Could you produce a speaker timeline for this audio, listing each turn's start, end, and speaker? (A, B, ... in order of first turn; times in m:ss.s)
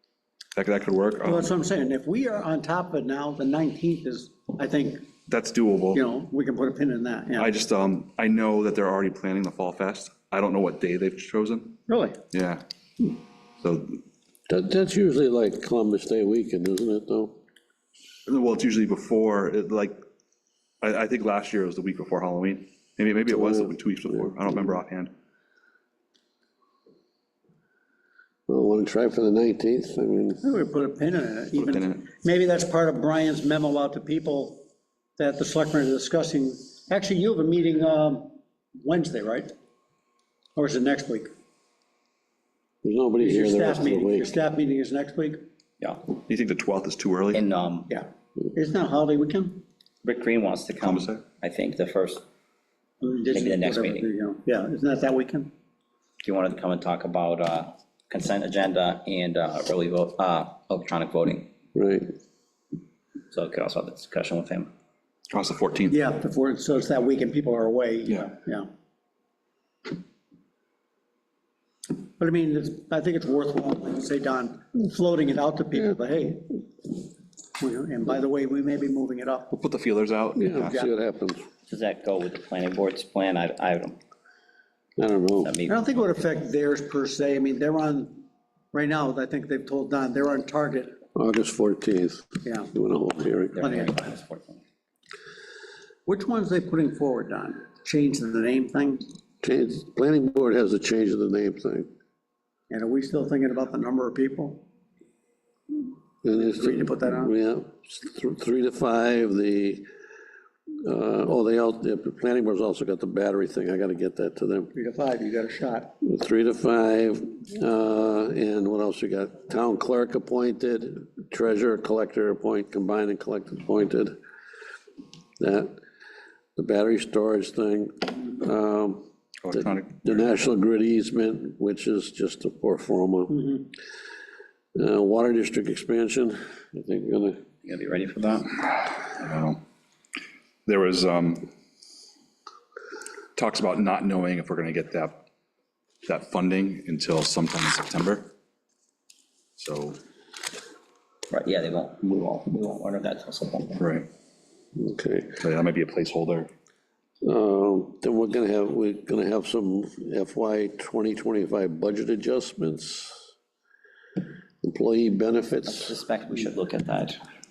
0:00.5-0:01.5 A
0:01.2-0:05.1 B
0:05.3-0:06.0 A
0:05.9-0:07.5 B
0:07.4-0:11.8 A
0:11.9-0:12.2 B
0:12.3-0:12.6 A
0:13.6-0:14.0 A
0:14.5-0:17.4 C
0:18.3-0:20.0 A
0:20.8-0:25.1 A
0:23.3-0:24.8 C
0:28.5-0:30.4 C
0:30.4-0:34.6 B
0:31.6-0:32.0 A
0:35.2-0:39.5 B
0:40.6-0:41.3 B
0:42.8-0:44.3 C
0:43.2-0:45.4 B
0:45.8-0:46.1 D
0:46.2-0:47.4 A
0:47.3-0:47.9 D
0:47.9-0:49.6 B
0:50.0-0:52.2 D
0:50.8-0:51.2 A
0:53.0-0:55.5 B
0:53.3-0:54.1 D
0:56.2-1:01.5 D
1:01.7-1:02.1 C
1:03.3-1:04.7 D
1:05.3-1:06.0 A
1:05.9-1:08.7 B
1:12.2-1:16.6 B
1:17.6-1:19.6 B
1:19.5-1:20.8 A
1:20.4-1:21.4 C
1:20.5-1:20.9 B
1:21.7-1:24.0 D
1:25.0-1:25.5 C
1:25.4-1:25.8 D
1:25.7-1:31.0 B
1:31.1-1:33.6 C
1:32.4-1:32.7 B
1:33.5-1:34.6 D
1:33.6-1:34.0 B
1:36.0-1:39.0 B
1:39.4-1:41.9 C
1:42.7-1:44.6 B
1:46.2-1:49.8 C
1:46.3-1:47.3 B
1:50.8-1:54.7 C
1:54.7-1:55.9 B
1:56.0-2:04.2 C
2:05.4-2:05.8 C
2:06.6-2:13.7 C
2:09.4-2:10.3 A
2:14.8-2:17.4 C
2:17.6-2:18.5 D
2:19.1-2:19.6 A
2:20.7-2:21.5 A
2:23.4-2:25.2 A
2:26.1-2:28.3 A
2:29.6-2:30.0 A
2:31.3-2:33.9 D
2:33.8-2:34.0 A
2:34.8-2:35.4 C
2:35.4-2:36.5 A
2:37.2-2:43.2 C
2:44.6-2:46.0 C
2:45.7-2:47.2 D